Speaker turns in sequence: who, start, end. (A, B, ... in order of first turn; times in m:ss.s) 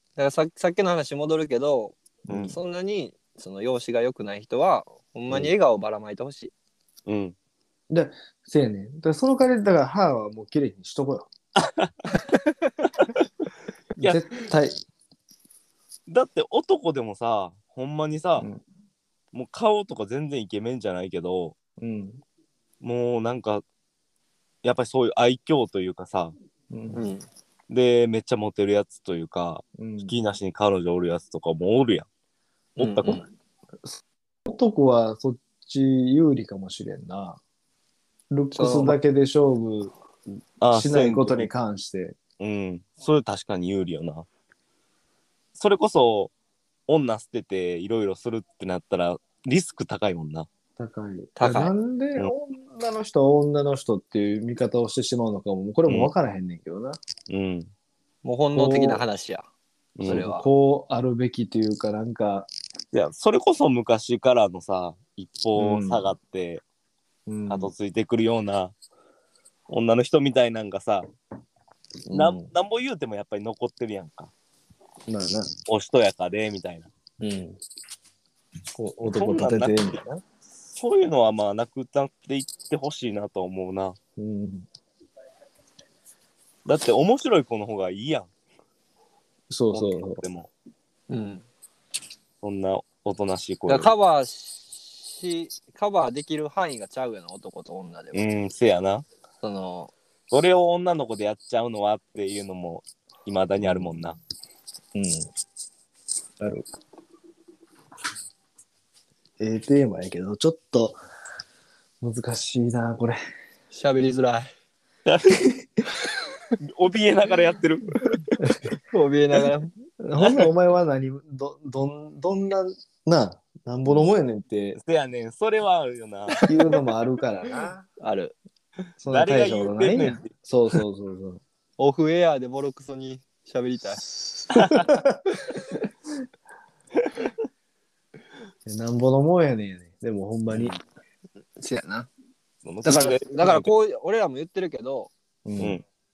0:00.2-0:06.5 A
0:02.3-0:02.6 B
0:07.1-0:07.4 B
0:07.9-0:11.3 C
0:11.6-0:11.9 B
0:14.0-0:14.8 C
0:16.1-0:18.5 B
0:19.3-0:21.6 B
0:21.8-0:22.2 C
0:22.8-0:23.6 B
0:24.6-0:26.3 B
0:26.7-0:27.0 C
0:26.9-0:27.3 A
0:27.7-0:32.1 B
0:29.8-0:30.2 C
0:32.8-0:33.3 A
0:32.8-0:33.2 B
0:33.8-0:37.4 C
0:38.3-0:39.9 C
0:38.6-0:39.0 A
0:40.6-0:41.5 B
0:40.7-0:42.2 C
0:42.4-0:44.3 B
0:45.6-0:46.3 B
0:46.9-0:50.5 B
0:50.8-0:57.0 C
0:51.4-0:51.7 A
0:55.9-0:56.1 B
0:57.3-0:57.7 B
0:58.2-0:59.5 A
0:58.5-0:59.0 C
1:00.0-1:00.3 B
1:00.0-1:00.4 A
1:00.0-1:02.5 C
1:02.9-1:06.6 B
1:05.6-1:06.1 C
1:07.3-1:07.7 C
1:07.5-1:08.8 B
1:09.7-1:11.1 B
1:12.1-1:12.5 C
1:12.1-1:14.3 B
1:15.1-1:15.5 C
1:15.6-1:16.9 B
1:17.2-1:17.6 C
1:18.7-1:20.2 C
1:19.0-1:20.0 B
1:20.8-1:24.0 B
1:24.2-1:24.7 C
1:26.7-1:28.3 B
1:29.5-1:30.2 C
1:29.7-1:30.5 B
1:31.1-1:31.4 A
1:32.4-1:33.9 B
1:33.7-1:38.3 A
1:38.1-1:39.0 B
1:39.4-1:39.9 A
1:40.3-1:44.2 B
1:43.6-1:44.0 C
1:44.9-1:45.3 C
1:46.4-1:46.7 C
1:49.4-1:51.0 C
1:52.0-1:53.2 C
1:53.7-1:54.5 A
1:55.1-1:55.4 B
1:56.6-1:58.3 B
1:58.9-1:59.7 A
2:00.0-2:04.8 C
2:00.2-2:00.5 B
2:04.8-2:06.4 B
2:06.5-2:07.8 C
2:08.0-2:08.4 A
2:09.0-2:11.4 C
2:09.1-2:10.3 B
2:11.8-2:14.0 A
2:14.5-2:15.2 C
2:14.5-2:14.9 B
2:18.6-2:20.8 C
2:20.5-2:20.8 B
2:21.6-2:22.1 A
2:22.6-2:23.7 B
2:22.8-2:25.1 A
2:25.4-2:25.8 C
2:25.6-2:25.8 B